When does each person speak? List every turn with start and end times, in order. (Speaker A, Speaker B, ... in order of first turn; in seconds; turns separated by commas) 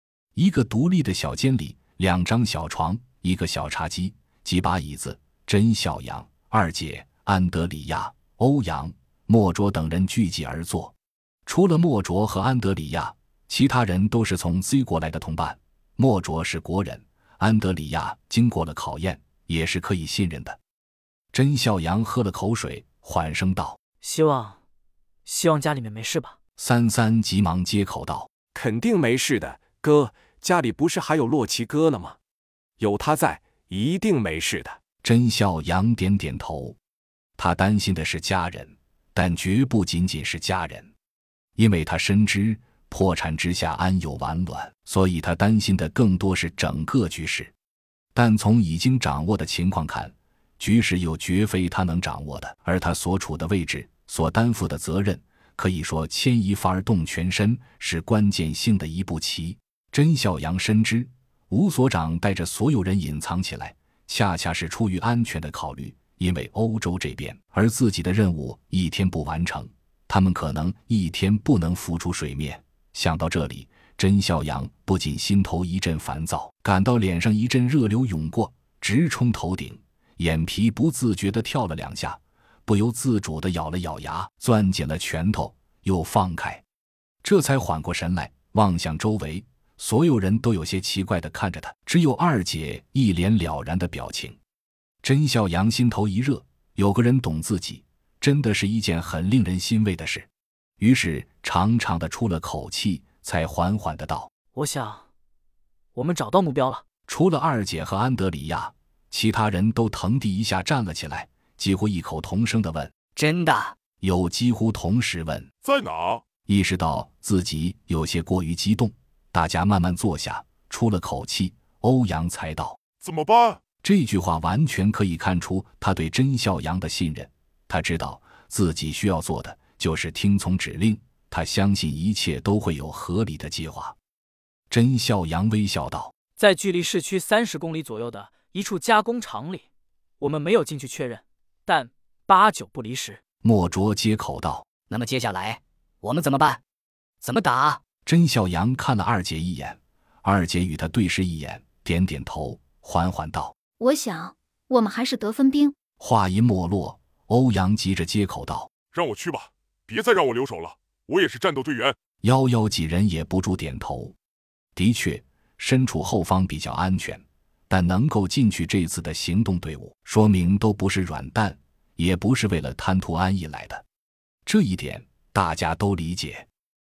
Speaker A: 0.3-10.9, Speaker A: 11.5-20.6, Speaker A: 21.3-23.8, Speaker B: 24.0-24.6, Speaker B: 25.3-26.4, Speaker A: 26.6-28.3, Speaker C: 28.6-32.2, Speaker C: 32.9-34.8, Speaker A: 35.0-36.8, Speaker A: 37.4-40.9, Speaker A: 41.6-47.5, Speaker A: 48.1-86.6, Speaker A: 87.2-94.4, Speaker A: 95.0-100.3, Speaker A: 100.8-104.3, Speaker B: 104.5-105.0, Speaker B: 105.9-106.8, Speaker A: 107.1-112.9, Speaker D: 113.2-113.7, Speaker A: 114.0-115.5, Speaker E: 115.6-116.2, Speaker A: 116.5-122.8, Speaker E: 123.0-123.6, Speaker A: 123.8-134.0, Speaker A: 134.7-136.1, Speaker B: 136.4-139.7, Speaker B: 140.2-143.2, Speaker A: 143.4-144.7, Speaker D: 144.9-146.6, Speaker D: 147.2-147.8, Speaker A: 148.1-153.5, Speaker F: 153.8-155.8, Speaker A: 156.0-158.7, Speaker E: 158.9-162.0, Speaker A: 162.2-164.2, Speaker A: 164.8-173.8, Speaker A: 174.5-176.5